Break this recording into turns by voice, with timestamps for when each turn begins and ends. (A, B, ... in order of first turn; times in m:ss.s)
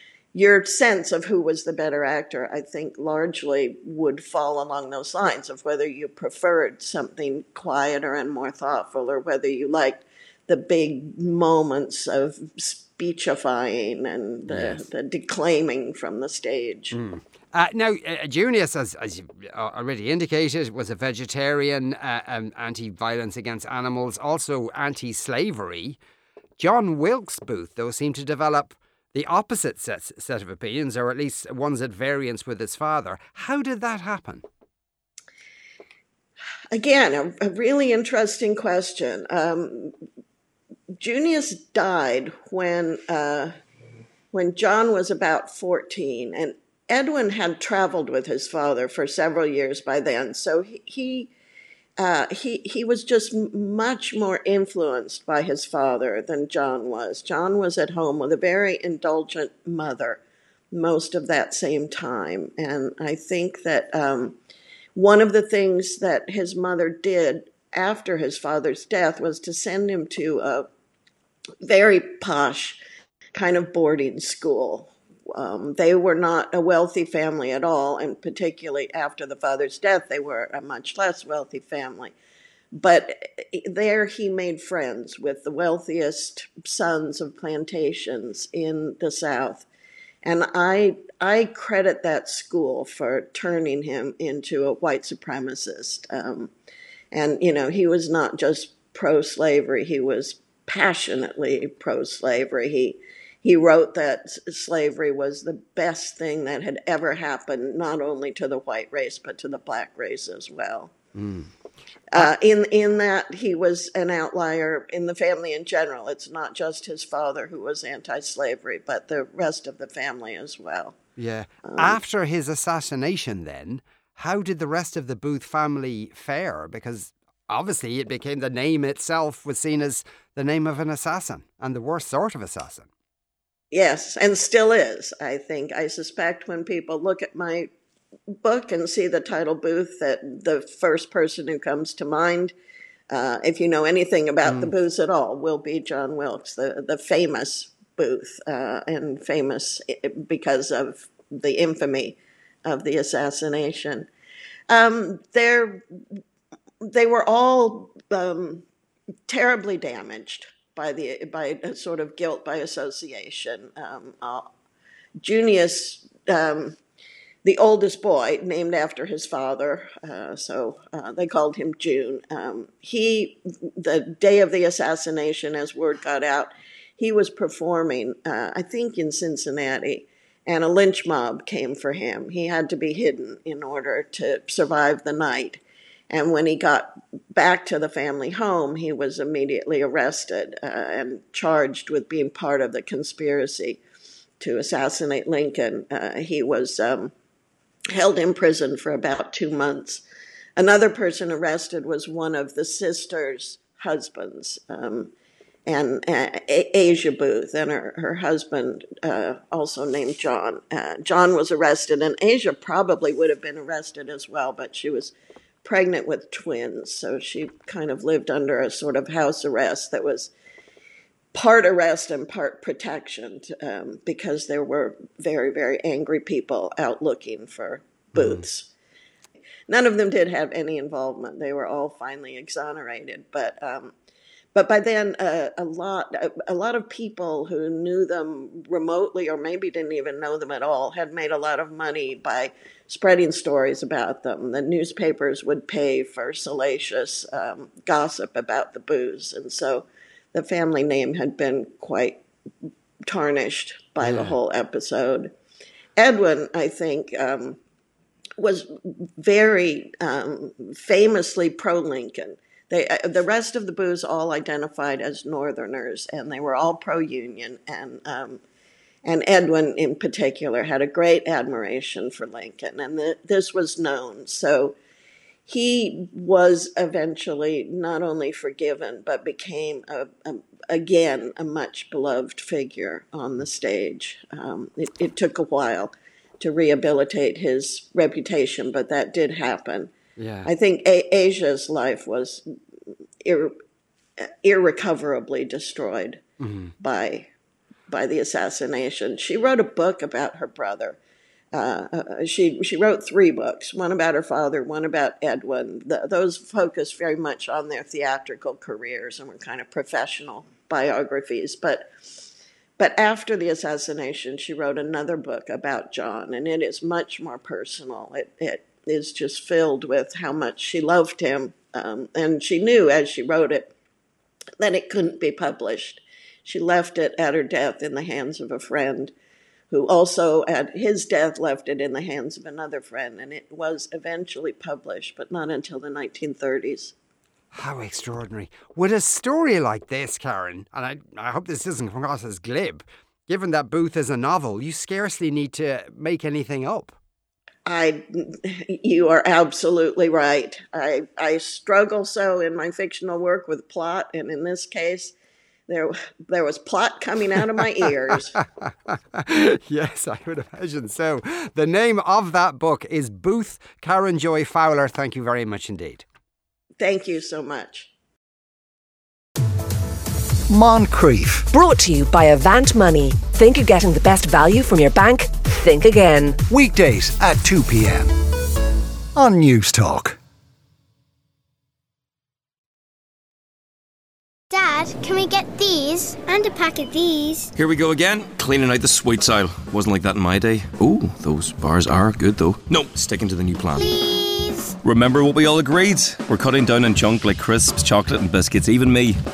0:00.3-0:17.0 A
0:14.5-0:14.8 B
0:16.9-0:26.0 B
0:26.6-0:34.4 B
0:36.7-0:39.9 A
0:41.0-0:43.5 A
0:44.3-0:51.3 A
0:52.0-1:00.2 A
1:00.7-1:04.4 A
1:04.9-1:10.6 A
1:11.6-1:12.8 A
1:13.3-1:22.1 A
1:22.7-1:29.6 A
1:30.2-1:36.5 A
1:37.1-1:50.9 A
1:51.1-1:51.5 B
1:52.1-2:00.9 A
2:01.2-2:12.9 B
2:01.6-2:02.0 A
2:13.7-2:17.7 A
2:18.3-2:22.5 A
2:23.1-2:34.1 A
2:24.4-2:24.7 B
2:34.7-2:35.8 A
2:36.8-2:38.6 A
2:39.3-2:44.4 A
2:45.2-2:46.8 A
2:47.4-3:13.8 A
3:14.4-3:17.1 A
3:17.9-3:20.0 A
3:20.6-3:25.1 A
3:25.6-3:40.3 A
3:41.3-3:48.7 A
3:49.7-3:53.9 A
3:54.5-4:12.2 A
4:13.1-4:15.3 A
4:14.0-4:14.4 B
4:16.0-4:17.6 A
4:18.4-4:28.4 A
4:29.0-4:34.8 A
4:35.4-4:49.9 A
4:50.2-4:50.5 B
4:50.4-4:52.4 A
4:53.2-4:53.5 A
4:54.4-4:56.2 A
4:56.4-4:56.7 B
4:56.8-4:57.3 A
4:57.9-5:01.0 A
5:01.5-5:11.9 A
5:12.8-5:23.7 A
5:24.6-5:29.1 A
5:29.7-5:36.9 A
5:37.5-5:47.0 B
5:47.6-5:55.1 A
5:55.7-5:58.4 A
5:58.6-6:06.0 B
6:06.8-6:07.9 A
6:10.5-6:11.5 C
6:11.5-6:16.4 D
6:16.5-6:18.1 C
6:19.2-6:20.2 C
6:24.5-6:27.5 E
6:27.6-6:33.9 F
6:33.7-6:34.7 E
6:34.8-6:39.2 F